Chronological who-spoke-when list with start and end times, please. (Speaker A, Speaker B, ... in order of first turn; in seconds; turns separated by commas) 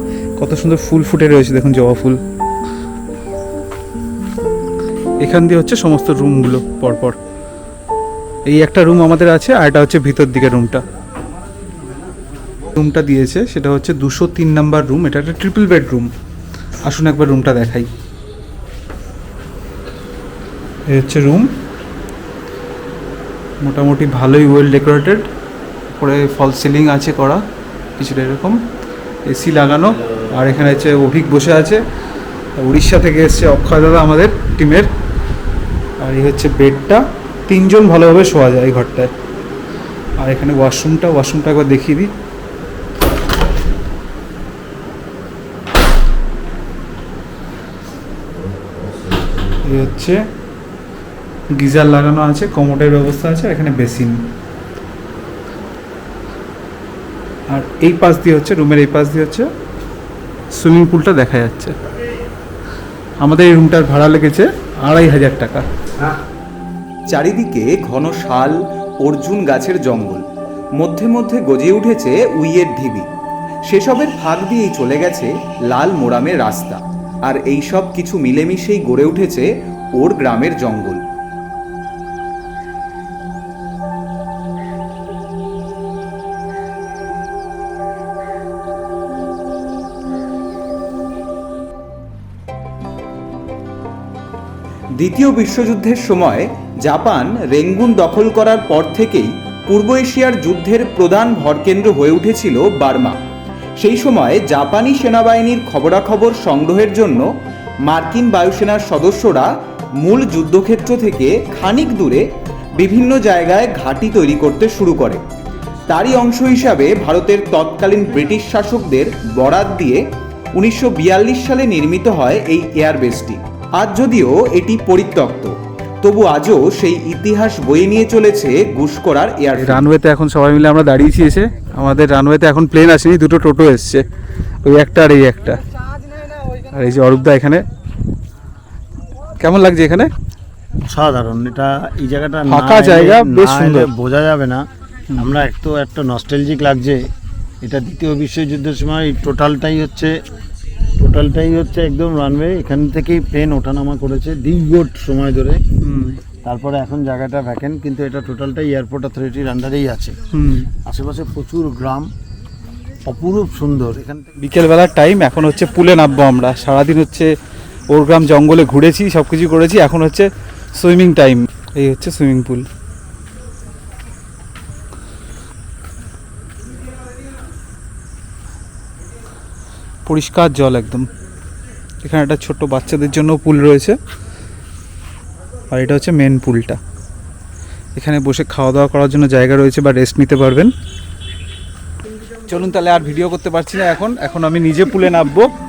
Speaker A: 0.4-2.2, Speaker A: 5.2-7.2, Speaker A: 8.5-10.8, Speaker A: 12.7-16.1, Speaker A: 16.9-17.9, Speaker A: 20.9-21.5, Speaker A: 23.6-25.3, Speaker A: 25.9-27.4, Speaker A: 28.0-28.6, Speaker A: 29.2-31.8, Speaker A: 32.6-34.9, Speaker A: 36.0-39.1, Speaker A: 40.2-42.1, Speaker A: 49.6-50.2, Speaker A: 51.5-54.2, Speaker A: 57.5-59.5, Speaker A: 60.5-61.7, Speaker A: 63.2-65.7, Speaker B: 67.1-70.2, Speaker B: 70.8-73.1, Speaker B: 73.7-81.0, Speaker B: 95.0-103.2, Speaker B: 103.8-107.3, Speaker B: 107.8-109.5, Speaker B: 110.0-112.2, Speaker B: 112.8-115.2, Speaker B: 115.9-120.0, Speaker B: 120.5-129.8, Speaker A: 129.6-134.0, Speaker A: 134.6-135.6, Speaker A: 136.7-137.6, Speaker A: 139.4-140.1, Speaker C: 140.9-144.6, Speaker A: 142.5-143.9, Speaker C: 145.2-147.1, Speaker C: 147.6-150.1, Speaker C: 151.0-155.6, Speaker A: 155.8-156.2, Speaker C: 156.4-160.2, Speaker A: 160.3-160.7, Speaker C: 160.8-162.1, Speaker C: 163.1-164.3, Speaker A: 164.4-167.3, Speaker A: 167.9-172.6, Speaker A: 180.1-181.0, Speaker A: 182.0-184.0, Speaker A: 185.7-186.8, Speaker A: 187.9-190.7, Speaker A: 192.5-195.5